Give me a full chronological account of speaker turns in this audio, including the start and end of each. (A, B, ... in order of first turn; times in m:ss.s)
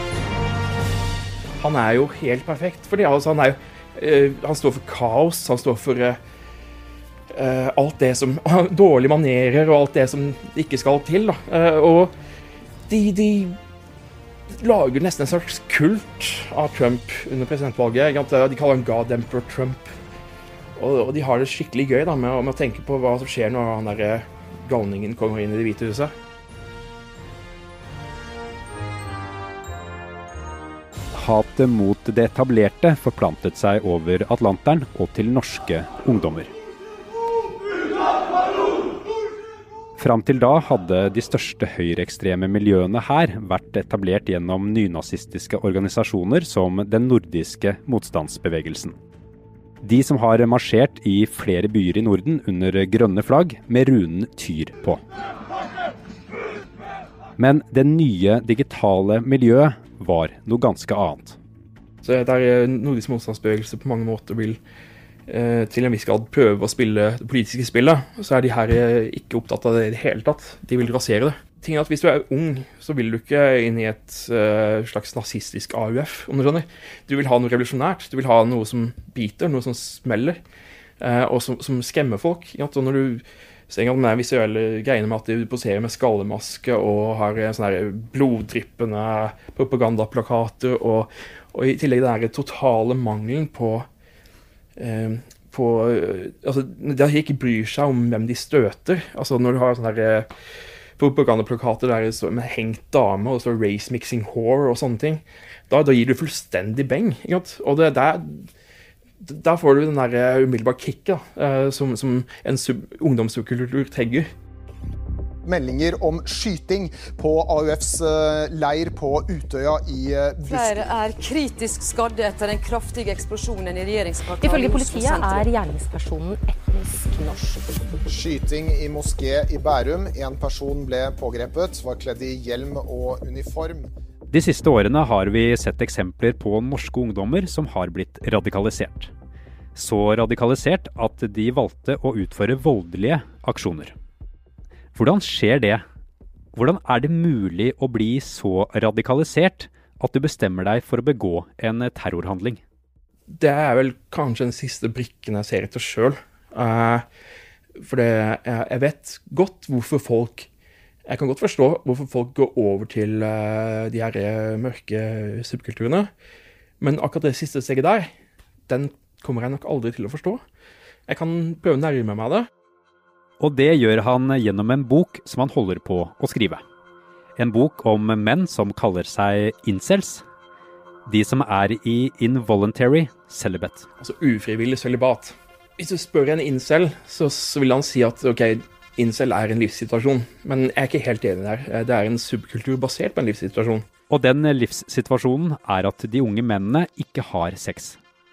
0:01.6-0:06.2 A
0:07.3-0:12.1 A
0:12.9-0:13.6 A
0:14.6-0:19.9 A
0:20.8-0:26.1 A
0:31.1-0:36.5 B
0:40.0-0:49.0 B
0:49.8-0:55.0 B
0:57.4-1:01.4 B
1:02.0-1:04.6 A
1:05.3-1:20.4 A
1:21.0-1:33.9 A
1:34.8-1:40.3 A
1:41.0-1:48.5 A
1:49.2-1:54.3 A
1:55.4-2:00.9 C
2:00.5-2:05.5 D
2:04.4-2:07.4 E
2:07.6-2:13.9 C
2:14.3-2:19.1 B
2:19.8-2:24.0 B
2:24.9-2:25.8 B
2:26.5-2:32.6 B
2:33.3-2:37.0 A
2:37.8-2:40.5 A
2:41.1-2:46.1 A
2:46.8-2:48.1 A
2:48.7-2:50.4 A
2:51.1-2:52.5 A
2:53.4-2:56.6 B
2:57.4-3:00.2 B
3:01.1-3:03.9 B
3:04.0-3:13.8 A
3:14.1-3:18.0 B